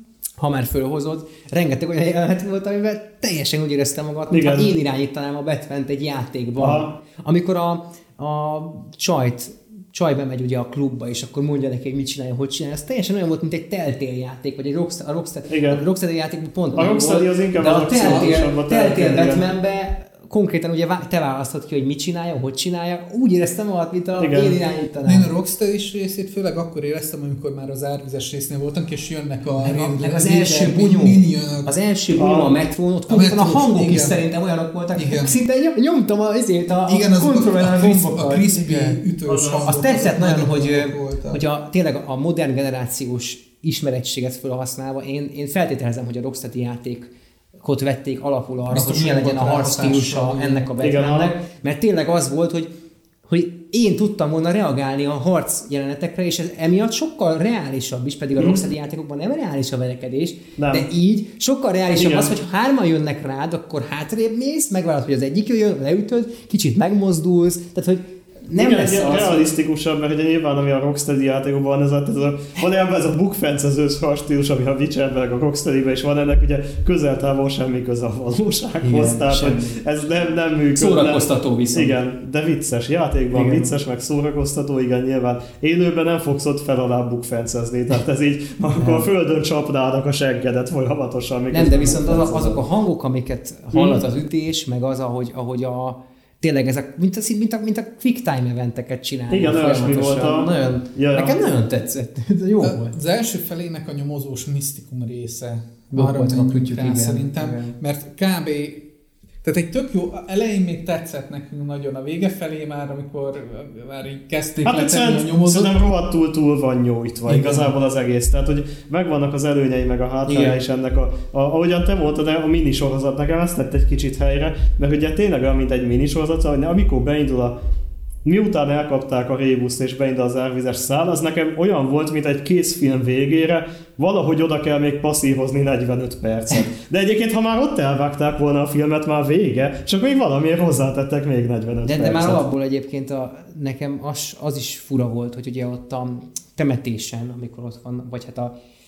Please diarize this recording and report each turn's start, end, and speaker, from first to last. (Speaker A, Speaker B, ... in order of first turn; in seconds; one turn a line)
Speaker A: 0.4-25.3
Speaker B: 4.3-4.7
Speaker B: 6.6-6.9
Speaker B: 15.5-15.8
Speaker B: 16.7-19.5
Speaker C: 18.0-18.3
Speaker B: 24.2-24.6
Speaker C: 25.0-31.7
Speaker A: 29.6-39.0
Speaker B: 32.1-32.5
Speaker C: 33.1-34.2
Speaker C: 35.0-35.4
Speaker C: 36.9-41.4
Speaker B: 39.2-39.7
Speaker A: 39.6-52.7
Speaker C: 48.7-50.7
Speaker B: 50.8-51.3
Speaker A: 53.3-69.4
Speaker B: 60.6-60.9
Speaker B: 62.0-62.3
Speaker B: 68.5-92.6
Speaker A: 78.8-79.8
Speaker A: 80.7-82.0
Speaker A: 83.3-83.7
Speaker A: 88.8-89.1
Speaker A: 91.5-102.9
Speaker B: 93.7-94.0
Speaker B: 99.3-101.4
Speaker C: 102.6-108.8
Speaker A: 105.9-107.7
Speaker C: 109.4-115.8
Speaker B: 114.6-127.5
Speaker A: 117.3-117.7
Speaker A: 120.2-120.6
Speaker B: 128.2-142.4
Speaker A: 141.8-148.5